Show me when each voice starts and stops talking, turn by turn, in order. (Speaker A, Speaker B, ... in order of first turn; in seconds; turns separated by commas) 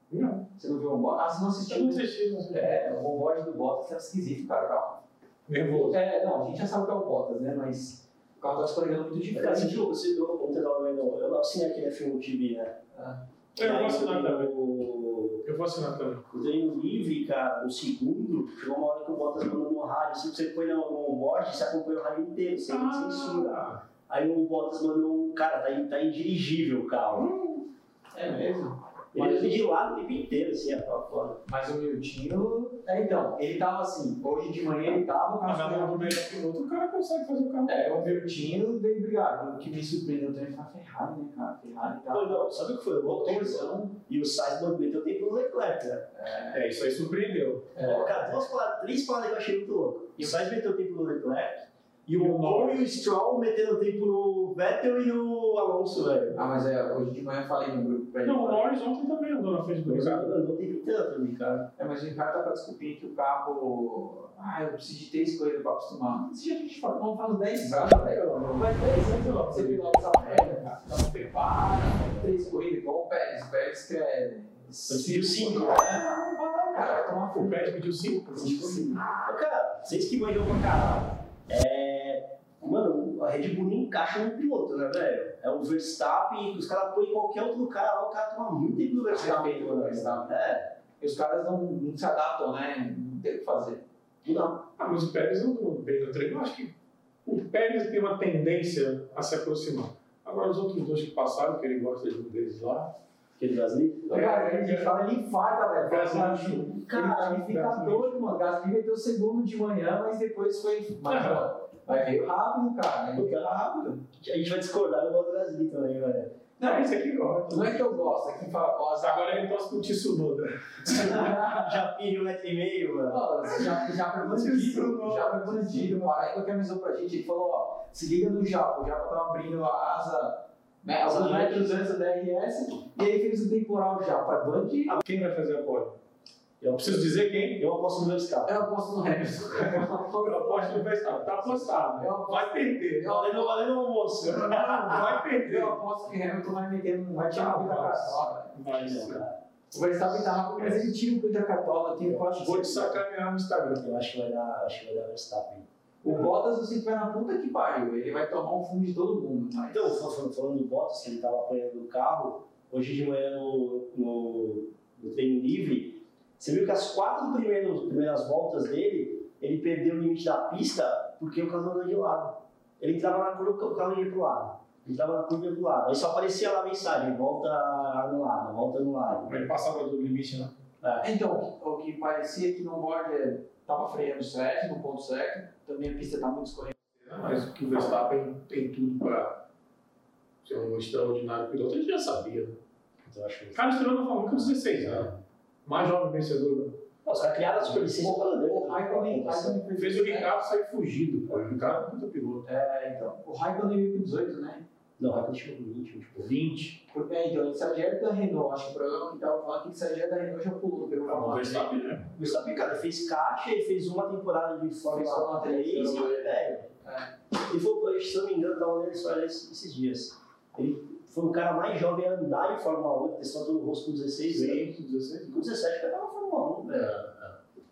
Speaker A: 0.1-0.5, Speaker B: 0.6-5.0, Speaker A: 1.7-2.9, Speaker A: 5.5-6.0, Speaker B: 5.7-9.9, Speaker C: 9.3-12.8, Speaker B: 12.9-13.2, Speaker A: 13.6-14.5, Speaker C: 13.6-15.4, Speaker A: 15.4-16.2, Speaker C: 16.3-27.3, Speaker A: 22.7-23.8, Speaker B: 28.1-29.7, Speaker C: 29.1-31.4, Speaker B: 31.5-36.2, Speaker A: 35.5-38.2, Speaker B: 37.7-44.0, Speaker C: 42.1-46.1, Speaker B: 46.1-47.0, Speaker A: 46.5-47.7, Speaker B: 47.7-48.3, Speaker C: 47.8-56.5, Speaker A: 52.1-52.9, Speaker B: 56.4-58.8, Speaker A: 58.2-60.4, Speaker C: 59.9-61.7, Speaker B: 61.8-79.0, Speaker A: 67.6-71.3, Speaker C: 74.9-76.1, Speaker A: 76.8-78.7, Speaker C: 78.4-90.7, Speaker B: 89.1-90.4, Speaker B: 91.0-93.8, Speaker C: 94.2-94.7, Speaker A: 94.8-96.7, Speaker A: 97.2-102.9, Speaker C: 103.4-104.2, Speaker A: 104.1-104.9, Speaker B: 104.1-114.0, Speaker A: 105.9-108.3, Speaker C: 106.9-107.5, Speaker A: 111.1-111.4, Speaker C: 113.2-113.5, Speaker C: 114.1-116.3, Speaker B: 116.6-116.9, Speaker A: 116.6-118.2, Speaker B: 117.5-119.5, Speaker A: 119.0-121.4, Speaker C: 120.9-123.6, Speaker B: 120.9-121.8, Speaker B: 123.1-135.0, Speaker A: 123.6-126.3, Speaker C: 131.1-131.8, Speaker A: 135.0-135.9, Speaker C: 136.6-138.6, Speaker A: 136.8-137.6, Speaker B: 138.5-140.9, Speaker A: 139.6-143.1, Speaker C: 141.2-141.9, Speaker B: 142.0-143.6, Speaker C: 143.0-145.2, Speaker A: 144.2-145.8, Speaker B: 145.2-148.6, Speaker A: 147.3-149.2, Speaker C: 148.7-149.4, Speaker B: 149.7-153.0, Speaker A: 150.6-150.9, Speaker A: 152.3-154.0, Speaker C: 153.8-155.7, Speaker B: 156.0-160.0, Speaker C: 159.7-179.3, Speaker A: 179.3-180.5, Speaker B: 181.0-186.8, Speaker A: 187.0-189.4, Speaker A: 190.4-192.6, Speaker C: 193.1-195.2, Speaker A: 193.6-195.1, Speaker A: 195.7-196.8, Speaker C: 197.1-199.6, Speaker B: 198.0-200.4, Speaker A: 199.8-202.4, Speaker B: 202.4-204.6, Speaker C: 205.0-206.4, Speaker A: 206.2-206.8, Speaker B: 206.9-211.7, Speaker A: 211.0-212.6, Speaker C: 212.1-216.7, Speaker B: 214.9-217.1, Speaker C: 217.3-224.7, Speaker A: 224.3-225.5, Speaker C: 225.3-227.1, Speaker A: 226.7-227.4